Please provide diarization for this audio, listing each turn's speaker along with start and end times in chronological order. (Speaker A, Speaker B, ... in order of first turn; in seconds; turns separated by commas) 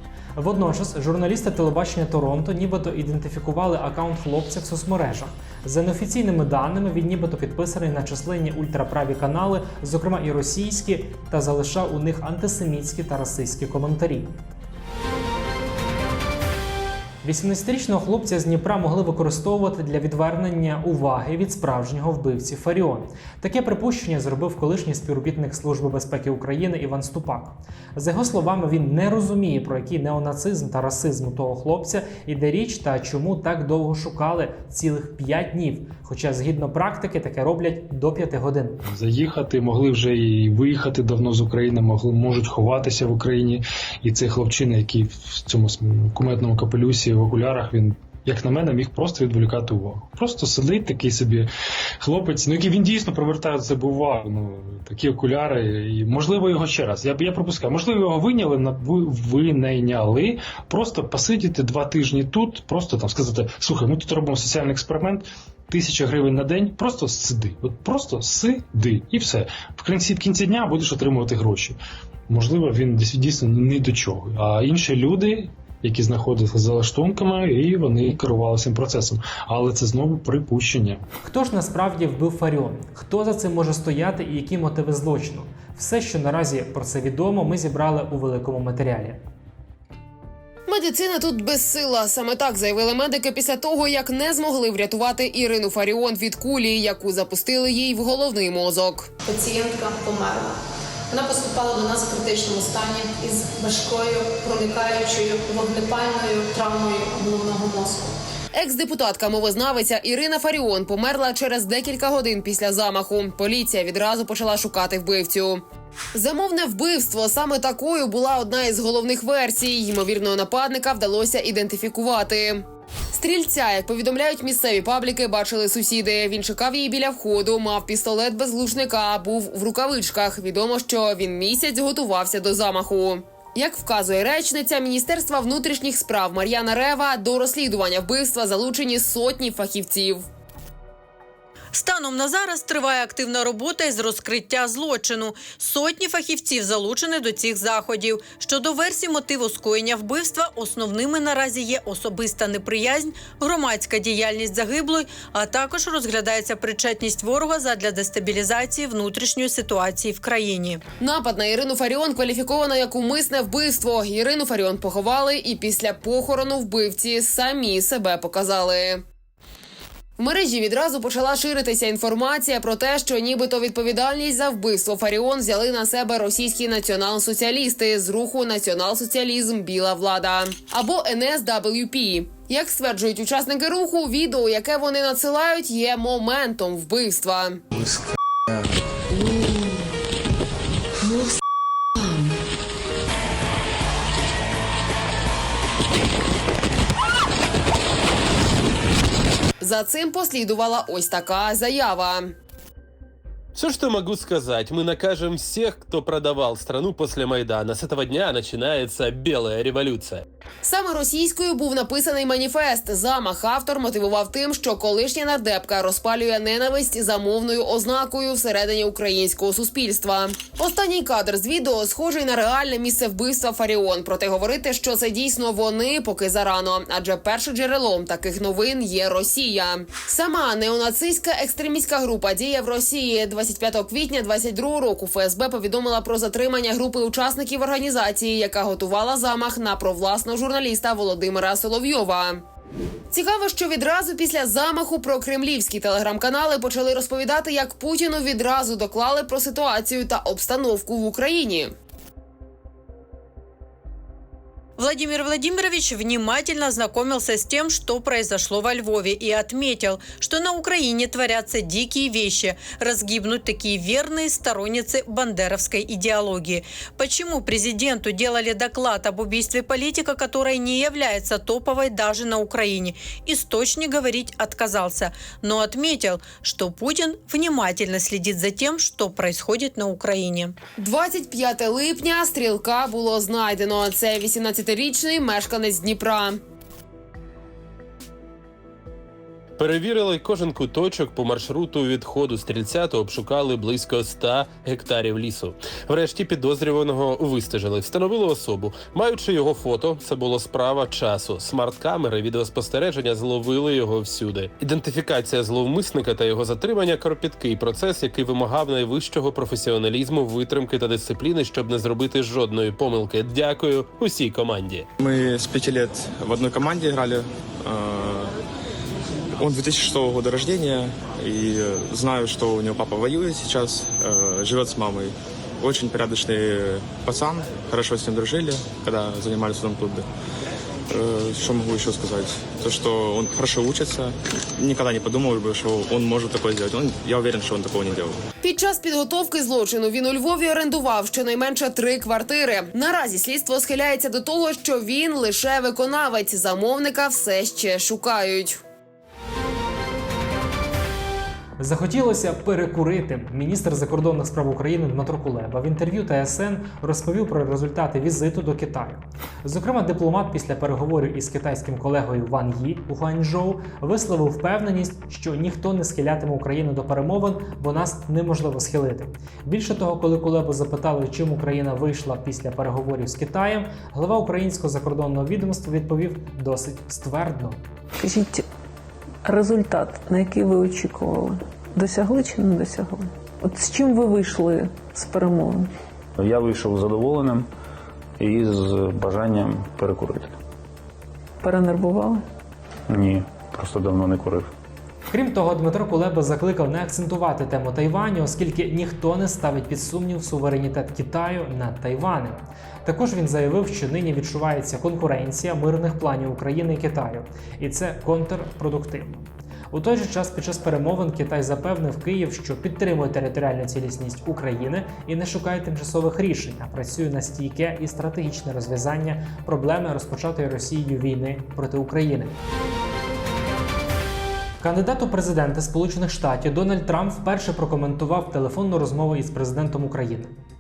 Speaker A: 0.4-14.3, Speaker A: 17.2-38.8, Speaker B: 38.9-51.5, Speaker B: 52.0-71.8, Speaker B: 72.3-81.0, Speaker A: 81.2-89.2, Speaker C: 90.7-99.1, Speaker D: 99.2-100.6, Speaker D: 101.1-108.2, Speaker C: 108.5-115.6, Speaker C: 116.2-140.2, Speaker E: 141.7-160.8, Speaker C: 161.0-169.0, Speaker C: 170.2-187.6, Speaker C: 199.6-202.3, Speaker F: 203.6-210.2, Speaker C: 210.6-242.4, Speaker C: 243.1-251.7, Speaker E: 254.8-280.6, Speaker C: 280.8-286.4, Speaker F: 289.6-314.9, Speaker G: 315.0-318.4, Speaker G: 319.4-330.1, Speaker G: 330.9-338.2, Speaker C: 338.4-348.6, Speaker A: 351.6-377.6, Speaker H: 378.0-378.5, Speaker H: 379.2-385.7, Speaker I: 386.2-387.5, Speaker I: 388.2-390.3, Speaker H: 391.4-392.2, Speaker I: 392.9-394.5, Speaker A: 395.1-422.4, Speaker A: 424.6-430.4